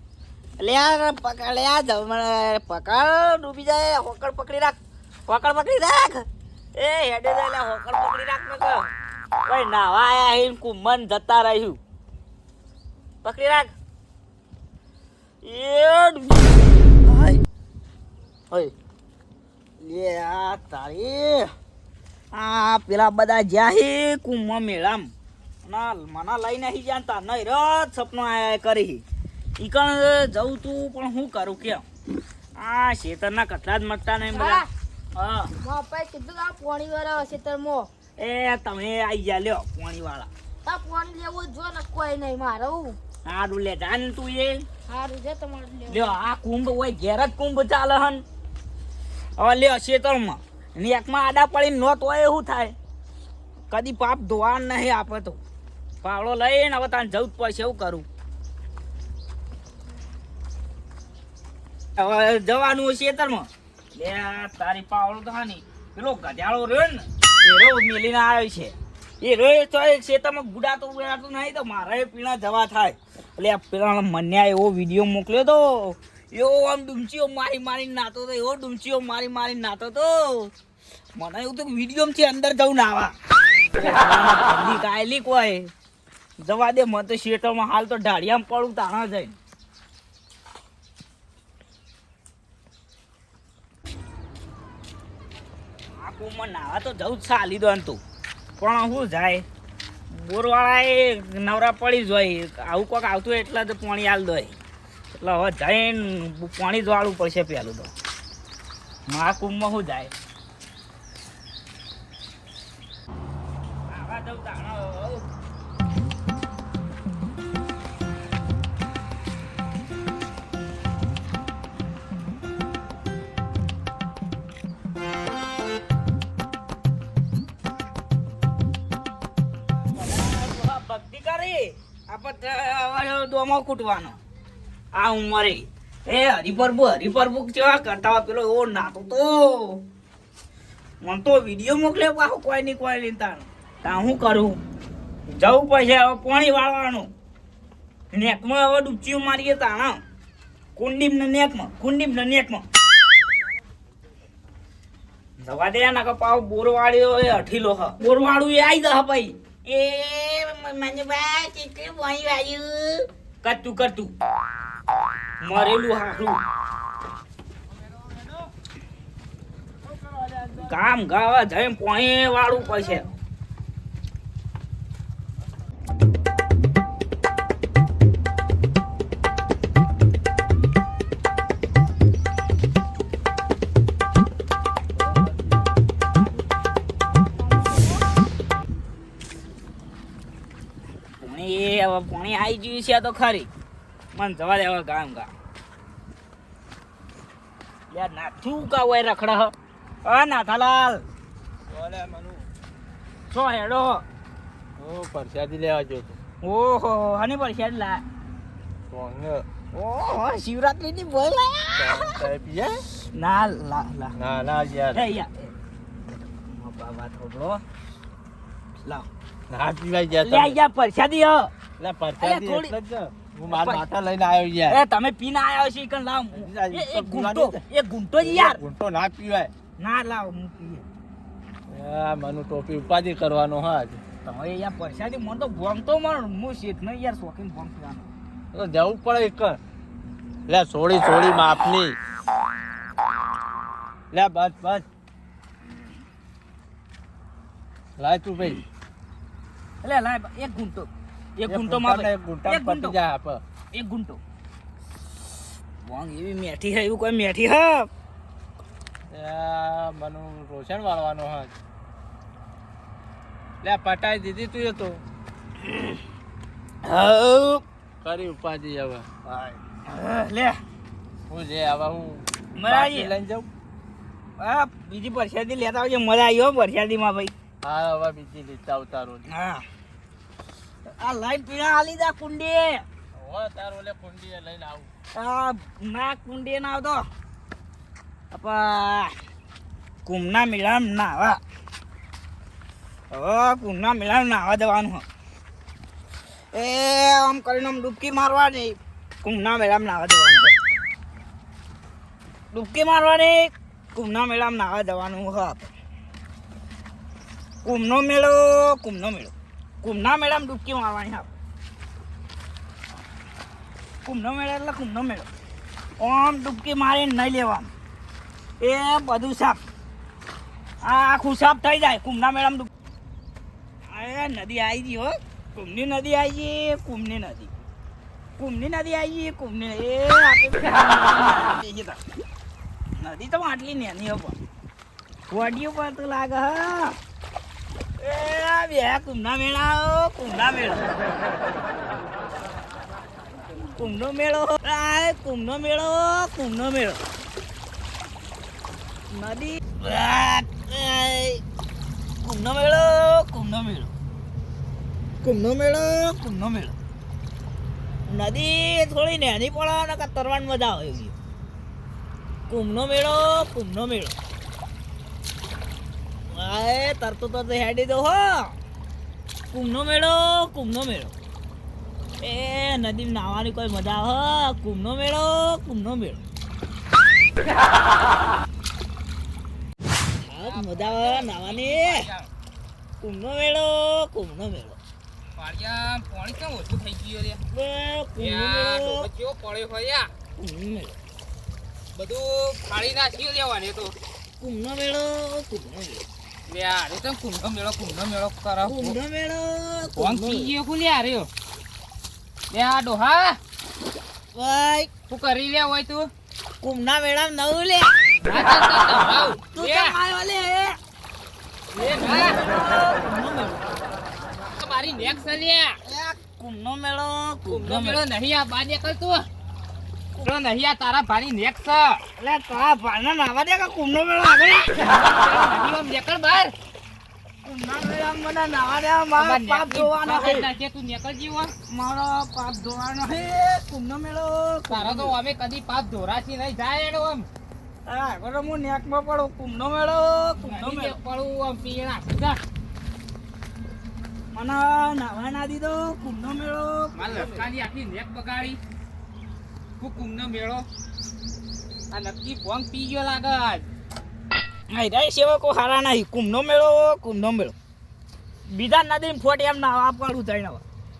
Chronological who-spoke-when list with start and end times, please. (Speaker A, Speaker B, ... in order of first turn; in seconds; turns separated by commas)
Speaker A: 0.6-8.9, Speaker A: 9.5-11.8, Speaker A: 13.2-13.7, Speaker A: 15.4-17.4, Speaker A: 19.8-21.5, Speaker A: 22.3-25.1, Speaker A: 25.6-29.0, Speaker A: 29.6-31.9, Speaker A: 32.6-34.6, Speaker B: 34.3-34.7, Speaker A: 35.2-35.5, Speaker B: 35.6-37.9, Speaker A: 38.2-40.3, Speaker B: 40.6-43.0, Speaker A: 43.3-44.6, Speaker B: 44.9-46.2, Speaker A: 45.9-48.2, Speaker A: 49.4-52.7, Speaker A: 53.7-55.4, Speaker A: 56.0-58.1, Speaker A: 62.0-80.5, Speaker A: 81.2-83.1, Speaker A: 83.7-85.7, Speaker A: 86.4-89.4, Speaker A: 96.0-98.0, Speaker A: 98.6-99.5, Speaker A: 100.1-104.6, Speaker A: 105.1-107.9, Speaker A: 109.1-110.1, Speaker A: 113.9-115.3, Speaker A: 129.9-134.2, Speaker A: 134.9-139.8, Speaker A: 141.0-144.6, Speaker A: 145.3-147.1, Speaker A: 148.1-150.0, Speaker A: 150.8-152.7, Speaker A: 155.4-164.1, Speaker A: 165.4-166.4, Speaker C: 170.1-170.5, Speaker A: 170.6-173.2, Speaker A: 191.2-193.5, Speaker A: 194.1-195.3, Speaker A: 197.9-199.5, Speaker A: 200.1-201.1, Speaker C: 201.7-202.5, Speaker A: 203.3-204.1, Speaker C: 204.8-206.2, Speaker A: 206.4-208.0, Speaker C: 208.9-209.5, Speaker A: 209.7-212.2, Speaker C: 211.8-212.9, Speaker A: 213.1-214.2, Speaker C: 214.2-215.0, Speaker A: 214.9-215.5, Speaker A: 216.1-217.6, Speaker C: 219.5-220.6, Speaker A: 220.2-221.5, Speaker C: 221.8-224.8, Speaker A: 222.2-222.8, Speaker A: 223.5-223.8, Speaker A: 224.7-228.6, Speaker C: 226.3-227.6, Speaker C: 228.2-229.5, Speaker A: 229.8-230.8, Speaker C: 231.7-234.0, Speaker A: 234.2-238.1, Speaker C: 238.5-239.6, Speaker C: 240.5-242.0, Speaker C: 244.1-244.9, Speaker C: 248.0-248.6, Speaker A: 249.8-253.0, Speaker C: 251.5-253.4, Speaker A: 253.7-254.2, Speaker A: 255.8-257.9, Speaker C: 259.1-261.5, Speaker C: 263.6-265.0, Speaker A: 266.8-267.6, Speaker C: 268.0-269.6, Speaker A: 269.9-270.6, Speaker C: 271.3-273.5, Speaker A: 272.6-273.1, Speaker A: 274.4-277.3, Speaker C: 277.6-279.3, Speaker A: 279.3-279.6, Speaker A: 281.0-282.9, Speaker C: 283.1-284.9, Speaker A: 285.1-287.1, Speaker A: 288.3-289.1, Speaker A: 290.1-291.4, Speaker A: 293.1-295.1, Speaker A: 296.5-300.5, Speaker A: 302.5-305.7, Speaker A: 307.6-311.3, Speaker A: 314.1-315.3, Speaker A: 316.0-317.7, Speaker A: 318.6-319.6, Speaker A: 320.8-322.7, Speaker A: 323.8-327.5, Speaker A: 328.4-332.0, Speaker A: 333.0-334.4, Speaker A: 335.3-337.0, Speaker A: 338.0-340.9, Speaker A: 343.8-347.0, Speaker A: 349.1-351.4, Speaker A: 352.2-353.9, Speaker A: 355.2-356.8, Speaker A: 358.1-361.1, Speaker A: 362.5-364.2, Speaker A: 366.3-368.5, Speaker A: 369.5-371.1, Speaker A: 372.2-376.2, Speaker A: 380.2-382.1, Speaker D: 380.4-382.3, Speaker A: 383.0-384.8, Speaker D: 385.4-387.4, Speaker A: 387.5-389.1, Speaker D: 388.2-390.1, Speaker A: 390.4-391.0, Speaker D: 391.9-393.9, Speaker A: 394.4-396.0, Speaker D: 396.5-399.0, Speaker A: 398.6-400.5, Speaker D: 400.0-401.3, Speaker D: 402.5-403.4, Speaker A: 404.4-404.9, Speaker D: 405.1-406.1, Speaker A: 406.6-408.1, Speaker D: 408.2-410.0, Speaker A: 409.5-410.8, Speaker D: 411.7-412.4, Speaker A: 411.8-413.6, Speaker D: 414.6-415.8, Speaker A: 415.9-418.0, Speaker D: 417.5-419.3, Speaker D: 420.2-422.0, Speaker A: 422.2-424.8, Speaker D: 424.8-426.5, Speaker A: 427.4-430.5, Speaker D: 429.1-431.5, Speaker A: 431.7-435.1, Speaker D: 434.7-437.3, Speaker A: 437.9-441.0, Speaker D: 440.4-442.4, Speaker A: 444.3-447.4, Speaker D: 446.9-448.6, Speaker D: 449.8-450.7, Speaker D: 451.9-453.7, Speaker A: 454.7-457.6, Speaker A: 458.5-460.6